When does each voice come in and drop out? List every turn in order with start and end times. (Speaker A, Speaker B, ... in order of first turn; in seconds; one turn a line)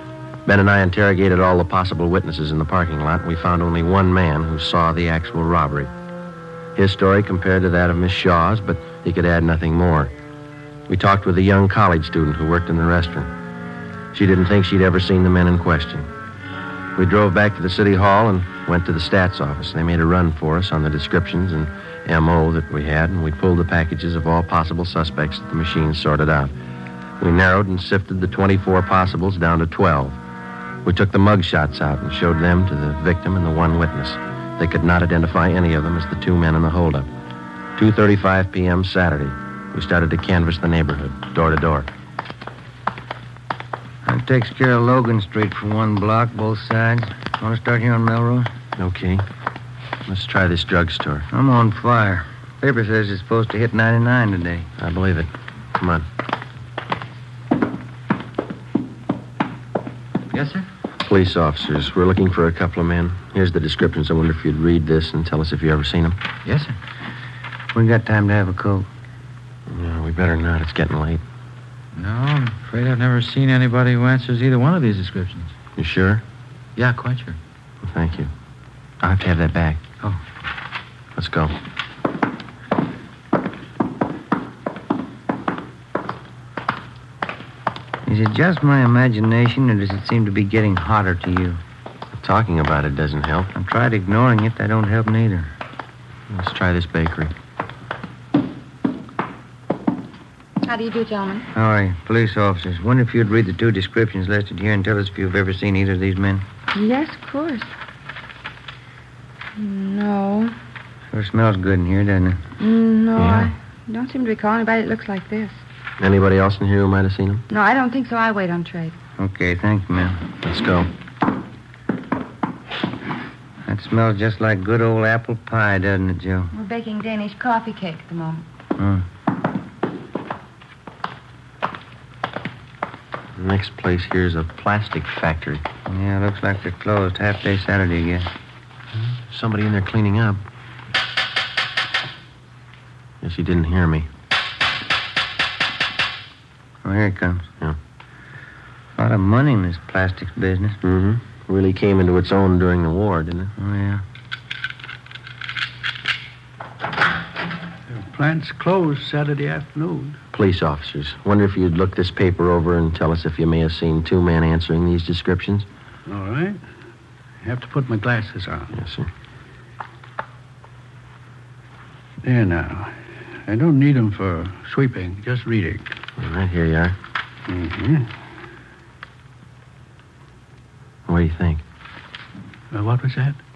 Speaker A: 0.5-5.9
Speaker A: 6.8-10.1
Speaker A: 10.9-13.3
Speaker A: 14.1-16.1
Speaker A: 16.9-26.5
Speaker A: 27.2-30.2
Speaker A: 30.8-37.1
Speaker A: 37.8-41.9
Speaker B: 44.0-48.5
Speaker A: 48.8-49.2
Speaker A: 50.1-51.3
Speaker B: 51.3-54.7
Speaker A: 54.8-56.0
Speaker C: 60.3-60.6
Speaker A: 61.0-66.2
Speaker C: 66.4-66.7
Speaker B: 67.7-68.9
Speaker A: 69.7-71.2
Speaker C: 72.0-75.5
Speaker A: 75.8-76.2
Speaker C: 76.8-77.4
Speaker A: 77.8-78.3
Speaker A: 79.0-79.8
Speaker A: 81.1-81.5
Speaker B: 88.0-91.6
Speaker A: 92.2-93.5
Speaker B: 93.5-95.5
Speaker A: 96.3-97.3
Speaker D: 100.6-101.5
Speaker B: 101.5-106.4
Speaker D: 106.7-107.7
Speaker D: 109.5-110.5
Speaker B: 111.1-112.4
Speaker D: 112.6-115.6
Speaker A: 113.2-113.5
Speaker A: 116.0-117.4
Speaker D: 117.5-119.0
Speaker B: 119.2-120.2
Speaker A: 120.4-120.9
Speaker B: 123.6-126.5
Speaker D: 126.5-128.4
Speaker B: 128.8-129.1
Speaker A: 133.3-135.6
Speaker B: 135.8-138.3
Speaker A: 138.9-140.4
Speaker A: 143.2-144.1
Speaker B: 146.8-147.5
Speaker B: 148.9-150.8
Speaker A: 150.8-153.5
Speaker B: 153.6-154.0
Speaker E: 157.9-160.2
Speaker A: 160.3-165.7
Speaker E: 166.1-166.6
Speaker E: 167.4-168.8
Speaker A: 168.7-169.1
Speaker E: 172.2-175.9
Speaker A: 176.2-177.0
Speaker E: 177.4-178.1
Speaker A: 181.1-181.6
Speaker E: 182.7-183.4